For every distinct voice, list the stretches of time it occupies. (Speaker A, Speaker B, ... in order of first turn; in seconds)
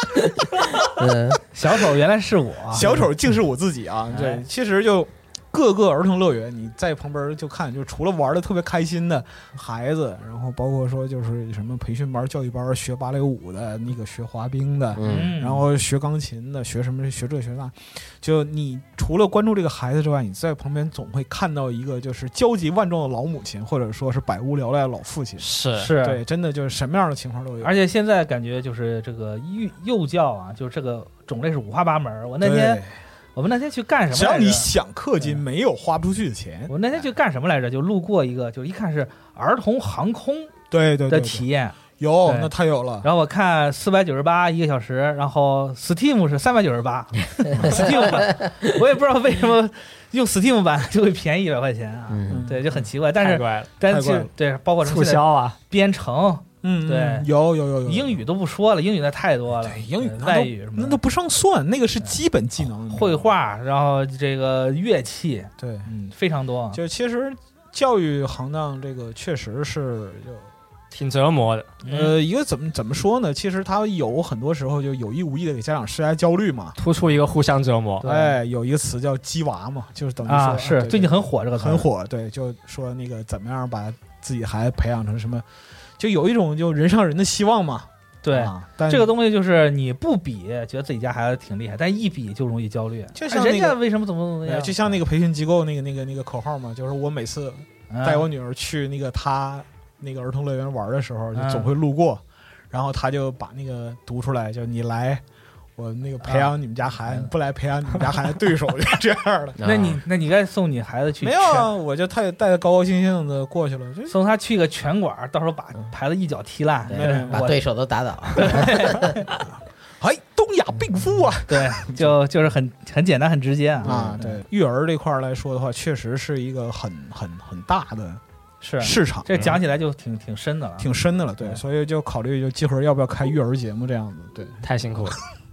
Speaker A: 0.1-1.4, 14.9-15.3, 47.5-48.3, 52.1-52.5, 109.6-110.0, 116.9-119.2, 123.8-124.2
Speaker B: 1.5-2.9, 4.1-4.4, 15.1-15.7, 25.8-26.2, 27.6-32.8, 33.3-35.4, 36.7-40.5, 41.1-42.5, 43.0-57.3, 57.8-61.0, 62.9-66.8, 71.8-72.2, 78.0-78.3, 80.2-81.9, 88.2-94.8, 97.9-98.3, 101.3-101.7, 106.2-106.5, 109.6-111.7, 114.1-117.6, 118.3-119.2, 121.5-124.4, 128.6-130.9
Speaker C: 2.7-27.7, 32.4-33.0, 34.1-36.7, 40.7-41.4, 42.0-43.1, 52.3-52.9, 53.9-54.3, 56.6-58.2, 59.6-63.3, 65.6-65.9, 66.7-70.5, 71.9-76.8, 78.0-85.4, 86.0-89.1, 93.1-93.8, 94.4-105.2, 105.8-109.6, 111.2-114.2, 116.9-117.5, 119.4-122.2, 123.8-128.2, 128.8-129.6, 130.8-135.2
Speaker D: 25.4-25.9, 53.2-53.7, 54.8-55.6, 70.9-71.7, 76.8-78.0, 134.6-135.2